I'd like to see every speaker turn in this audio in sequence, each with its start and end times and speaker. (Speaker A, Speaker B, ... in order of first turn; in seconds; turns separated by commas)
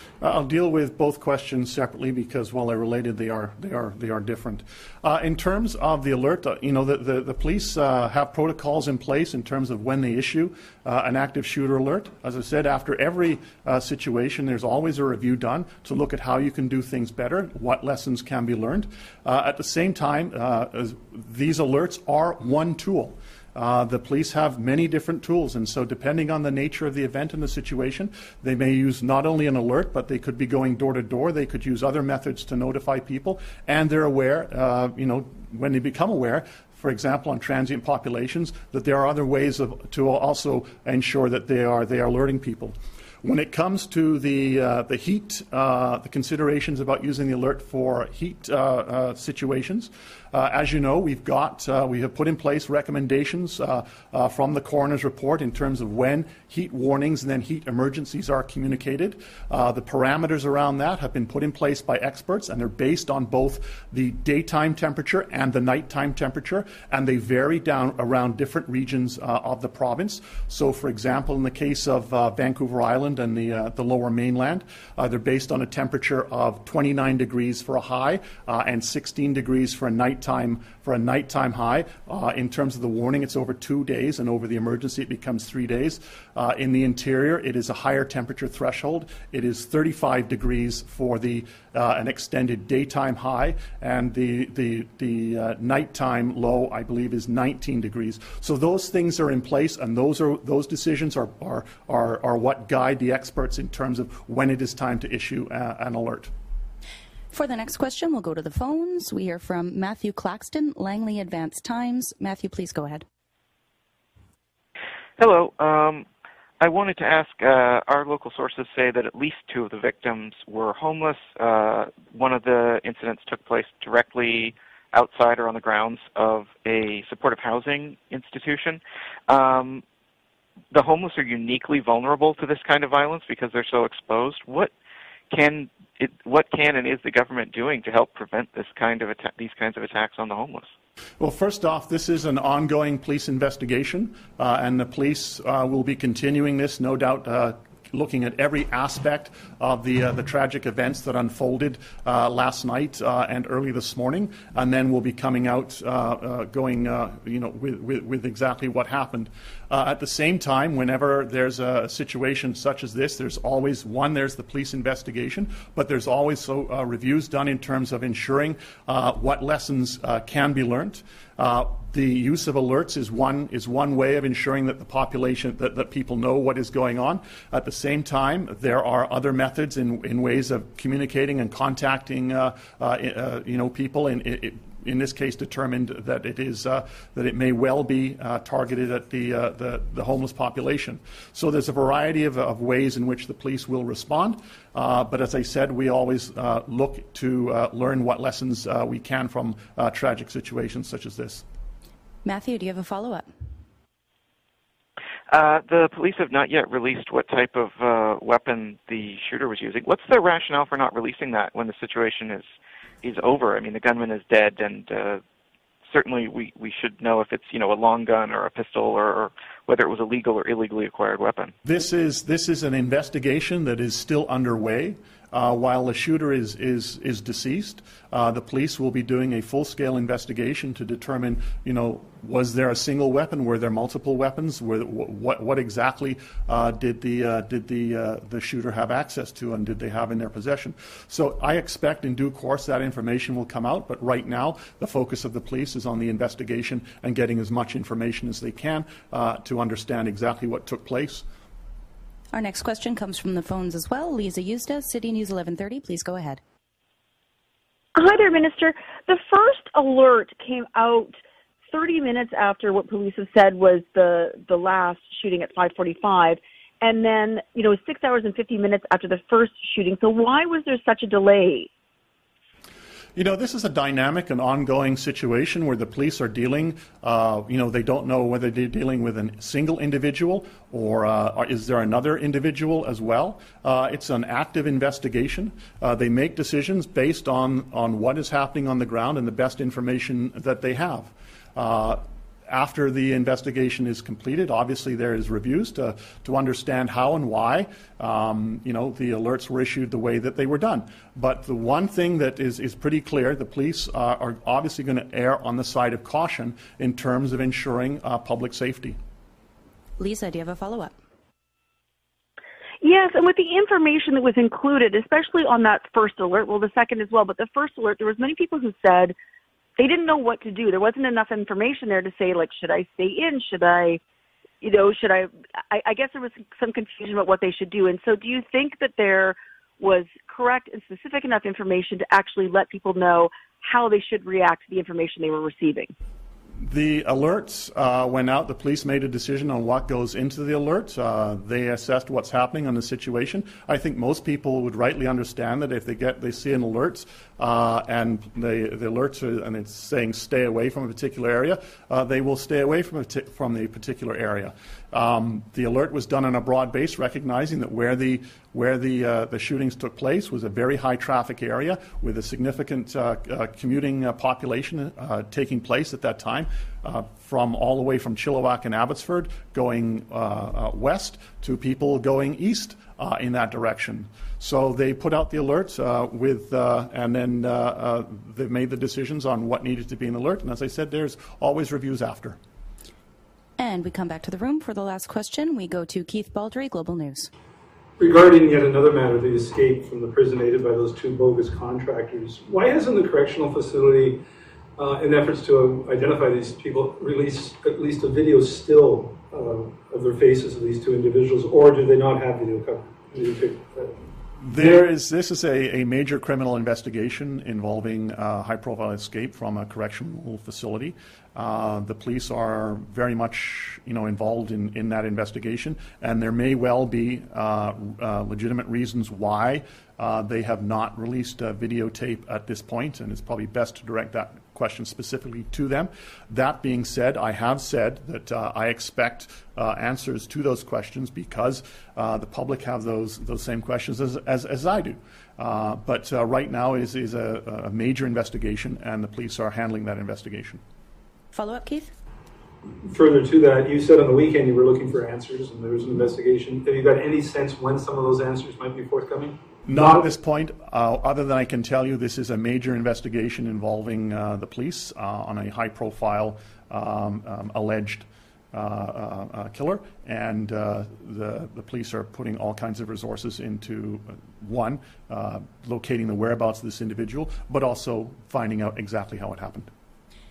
Speaker A: 0.2-106.3, Speaker B: 107.3-113.0, Speaker C: 115.2-116.0, Speaker C: 116.6-129.8, Speaker C: 130.7-134.7, Speaker C: 135.3-140.7, Speaker A: 141.2-201.4, Speaker B: 202.2-203.3, Speaker C: 205.3-212.5, Speaker C: 213.0-215.2, Speaker C: 215.9-221.5, Speaker A: 221.6-251.2, Speaker B: 252.3-256.4, Speaker D: 257.9-261.1, Speaker D: 261.7-271.7, Speaker A: 273.1-309.0, Speaker B: 310.0-310.9, Speaker D: 312.8-319.1, Speaker D: 319.8-324.0, Speaker D: 324.6-335.9, Speaker A: 336.6-382.4, Speaker B: 383.6-387.3, Speaker E: 388.0-394.2, Speaker E: 394.8-404.0, Speaker A: 404.4-440.6, Speaker B: 441.3-441.9, Speaker E: 442.8-450.0, Speaker A: 449.6-469.7